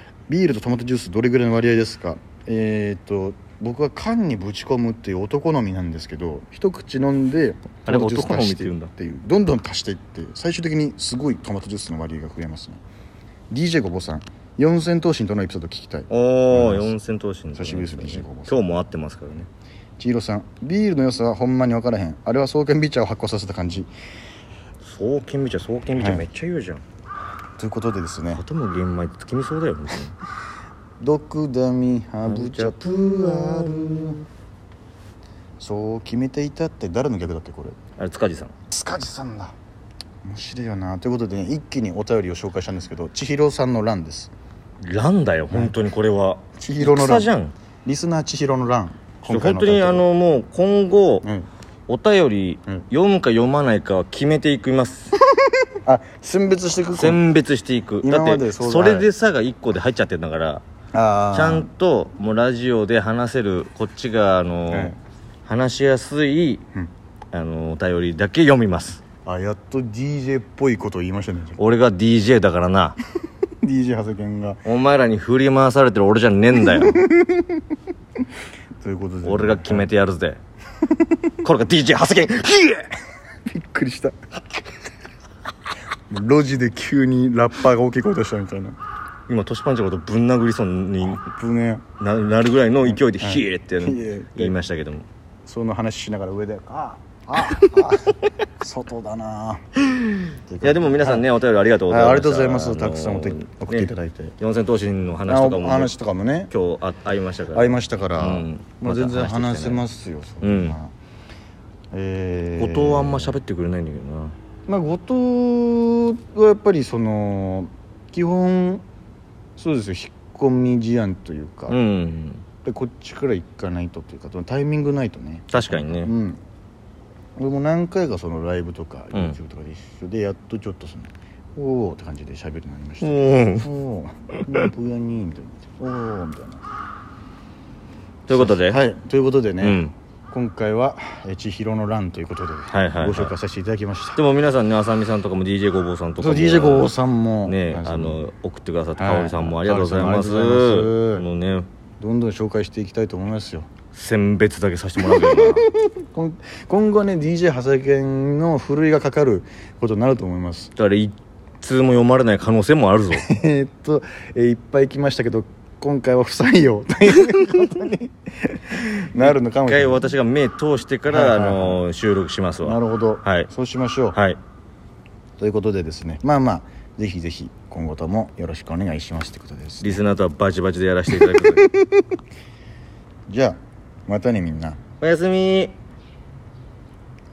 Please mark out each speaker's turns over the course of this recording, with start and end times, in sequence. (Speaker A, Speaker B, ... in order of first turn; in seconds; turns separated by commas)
Speaker A: 0.3-12.8, Speaker B: 7.9-8.9, Speaker A: 13.5-17.0, Speaker B: 16.1-19.5, Speaker A: 17.6-18.6, Speaker A: 20.0-23.9, Speaker B: 24.8-26.8, Speaker A: 26.0-26.2, Speaker A: 27.6-28.4, Speaker B: 28.3-30.1, Speaker A: 31.0-34.2, Speaker B: 32.3-34.1, Speaker A: 35.6-37.8, Speaker B: 38.0-38.5, Speaker A: 38.7-39.5, Speaker A: 40.2-44.3, Speaker B: 44.8-47.5, Speaker A: 46.6-47.3, Speaker A: 47.9-50.1, Speaker B: 49.3-51.3, Speaker B: 51.9-55.1, Speaker A: 55.9-57.2, Speaker B: 56.9-60.6, Speaker A: 58.0-59.1, Speaker A: 60.9-61.7, Speaker B: 61.3-65.0, Speaker A: 64.7-65.0, Speaker B: 65.5-66.6, Speaker B: 67.3-69.0, Speaker A: 69.2-71.6, Speaker B: 71.6-73.0, Speaker A: 73.6-74.6, Speaker B: 74.7-77.0, Speaker A: 76.7-77.6, Speaker A: 78.8-79.9, Speaker B: 79.2-80.4, Speaker B: 81.4-82.9, Speaker A: 83.5-84.2, Speaker A: 86.1-88.8, Speaker B: 89.3-91.2, Speaker A: 91.0-91.8, Speaker B: 92.0-95.1, Speaker A: 92.8-94.5, Speaker A: 95.5-99.6, Speaker B: 99.9-105.9, Speaker A: 100.5-101.3, Speaker A: 101.9-104.4, Speaker A: 105.3-106.5, Speaker B: 106.5-109.8, Speaker A: 107.5-110.9, Speaker B: 110.4-110.8, Speaker A: 111.9-113.4, Speaker B: 112.6-114.3, Speaker A: 114.7-118.8, Speaker A: 119.6-121.8, Speaker B: 121.7-122.5, Speaker A: 122.7-126.4, Speaker B: 125.5-126.1, Speaker A: 127.4-136.6, Speaker B: 133.0-133.7, Speaker B: 138.3-138.8, Speaker A: 138.3-144.2, Speaker B: 139.6-139.9, Speaker B: 142.7-143.3, Speaker B: 144.2-146.9, Speaker A: 146.2-148.2, Speaker B: 147.5-151.7, Speaker A: 149.0-151.2, Speaker A: 152.0-153.7, Speaker B: 153.9-155.7, Speaker A: 155.0-160.7, Speaker B: 160.8-163.3, Speaker A: 163.1-170.1, Speaker B: 169.2-173.5, Speaker A: 171.1-171.9, Speaker A: 172.6-174.2, Speaker B: 174.1-174.4, Speaker A: 175.4-180.0, Speaker B: 179.8-181.7, Speaker A: 181.1-182.0, Speaker A: 183.3-184.8, Speaker B: 185.0-185.8